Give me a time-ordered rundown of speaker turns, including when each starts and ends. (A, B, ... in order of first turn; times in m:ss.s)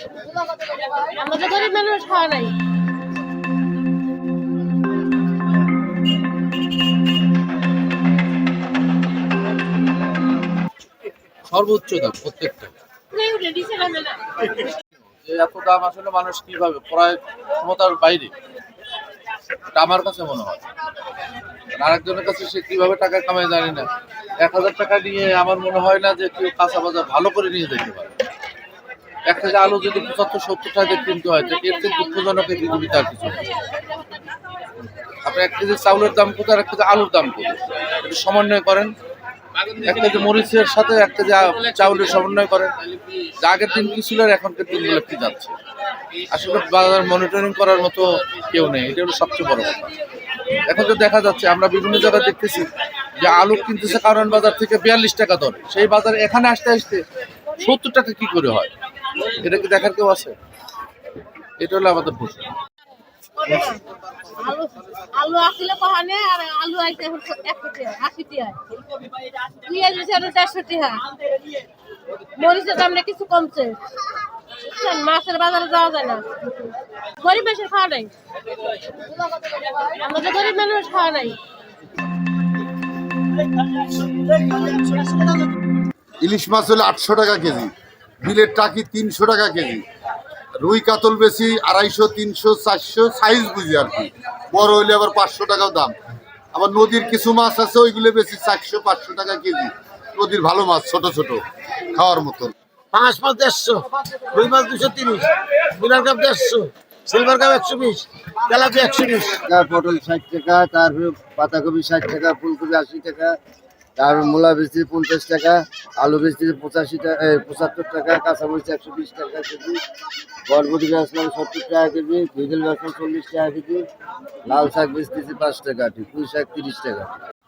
0:00.9-0:02.5 A
0:11.5-0:12.7 B
0:13.1-0:14.4 A
0:15.1-0:18.3 B
0:19.7-0:20.6 B
0:21.7-0:23.9 B
0:24.4-0:28.1 B
0:29.2-0:33.5 B
0:35.2-0:38.9 B
0:39.8-0:42.7 B
0:43.4-0:45.6 B
0:46.3-0:49.8 B
0:50.6-0:57.0 B
0:57.5-0:58.7 B
0:59.3-1:00.3 B
1:01.6-1:02.5 B
1:03.4-1:08.6 A
1:09.5-1:11.0 A
1:12.3-1:13.8 A
1:14.5-1:18.1 A
1:19.8-1:21.4 A
1:26.2-1:27.7 C
1:28.2-1:29.8 C
1:30.6-1:35.9 C
1:36.5-1:42.5 C
1:42.9-1:49.4 D
1:49.4-1:53.3 E
1:54.0-1:59.8 E
2:00.5-2:03.8 E
2:04.4-2:07.1 E